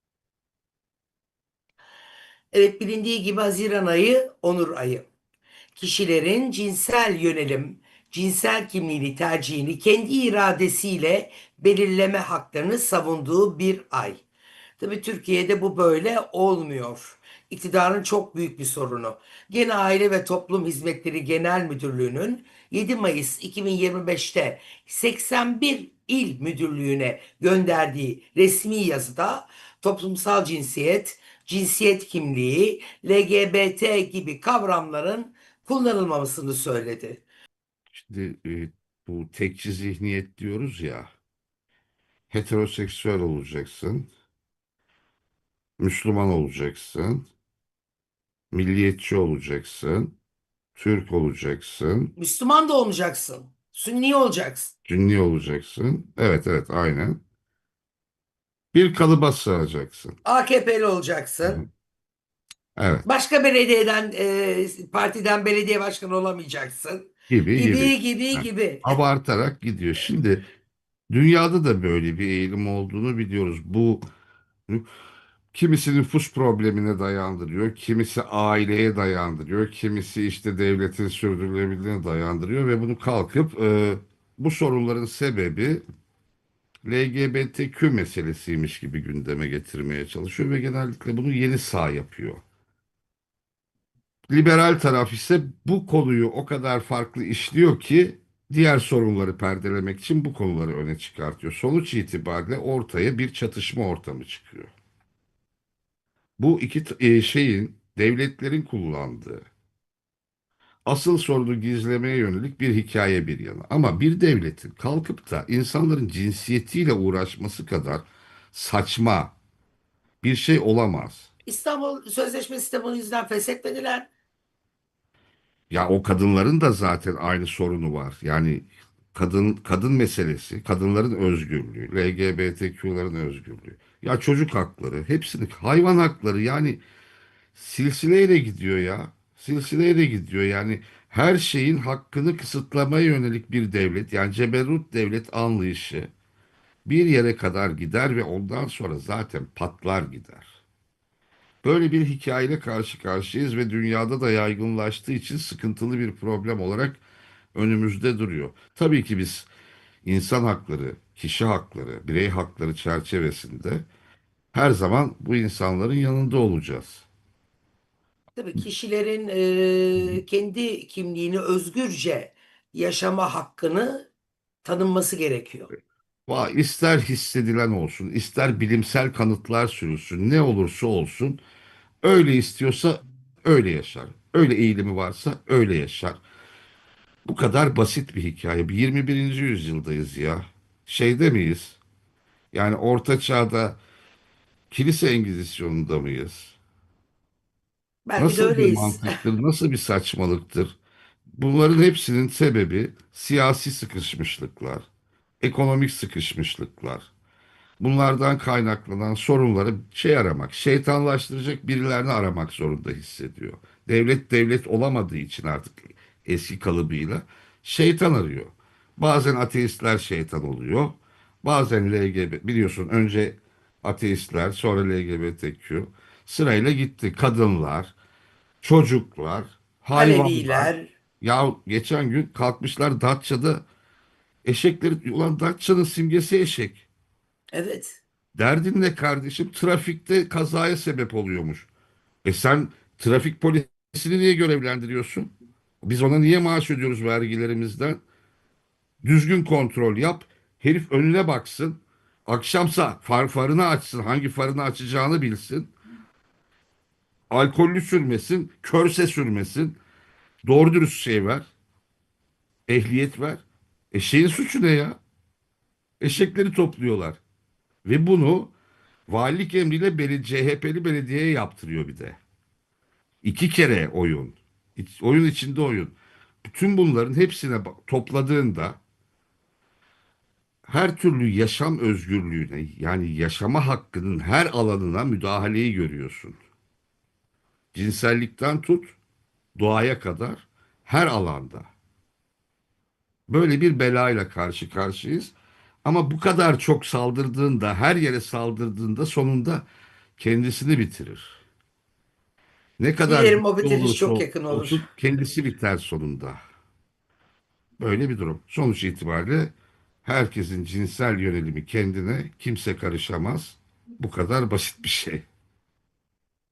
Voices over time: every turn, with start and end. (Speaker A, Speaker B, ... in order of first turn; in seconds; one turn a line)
Speaker A: 2.5-5.1
Speaker A: 5.8-14.2
Speaker A: 14.8-37.2
Speaker B: 37.9-41.1
Speaker B: 42.3-44.1
Speaker B: 45.8-47.3
Speaker B: 48.5-50.1
Speaker B: 50.8-52.1
Speaker A: 52.2-54.7
Speaker B: 54.9-57.2
Speaker B: 58.7-60.1
Speaker A: 60.2-61.6
Speaker B: 62.8-63.0
Speaker A: 63.0-69.0
Speaker B: 67.3-70.4
Speaker B: 71.1-74.0
Speaker B: 75.5-85.8
Speaker B: 86.8-92.4
Speaker B: 94.3-104.7
Speaker B: 106.4-109.5
Speaker B: 110.9-119.3
Speaker B: 120.2-121.3
Speaker A: 121.5-124.1
Speaker B: 125.7-136.8
Speaker B: 137.6-146.1
Speaker B: 146.9-150.6
Speaker B: 151.6-157.0
Speaker B: 157.6-159.5
Speaker B: 160.0-163.9
Speaker B: 164.5-167.1
Speaker A: 168.4-174.1
Speaker A: 174.6-175.7
Speaker B: 176.3-181.4
Speaker B: 182.0-186.2
Speaker B: 187.2-191.8
Speaker B: 192.5-193.8
Speaker B: 194.7-196.6
Speaker A: 198.1-199.2
Speaker B: 198.2-200.8
Speaker B: 201.4-204.9
Speaker B: 205.4-207.1
Speaker B: 207.8-227.9
Speaker B: 228.6-233.6
Speaker A: 229.9-230.9
Speaker B: 234.4-236.9
Speaker A: 237.5-238.0
Speaker B: 238.3-241.7
Speaker B: 242.2-245.3
Speaker B: 245.8-248.0
Speaker B: 249.0-255.7
Speaker B: 257.3-259.8
Speaker B: 260.4-261.5
Speaker B: 262.7-263.4
Speaker B: 263.9-265.0
Speaker B: 266.0-267.2
Speaker B: 267.9-268.5
Speaker B: 269.1-272.2
Speaker B: 273.2-278.8
Speaker B: 280.7-286.4
Speaker B: 287.7-289.0
Speaker B: 289.6-291.7
Speaker B: 293.3-299.7
Speaker B: 300.2-301.4
Speaker B: 302.8-306.4
Speaker A: 303.1-304.9
Speaker B: 307.8-309.5
Speaker B: 310.1-315.2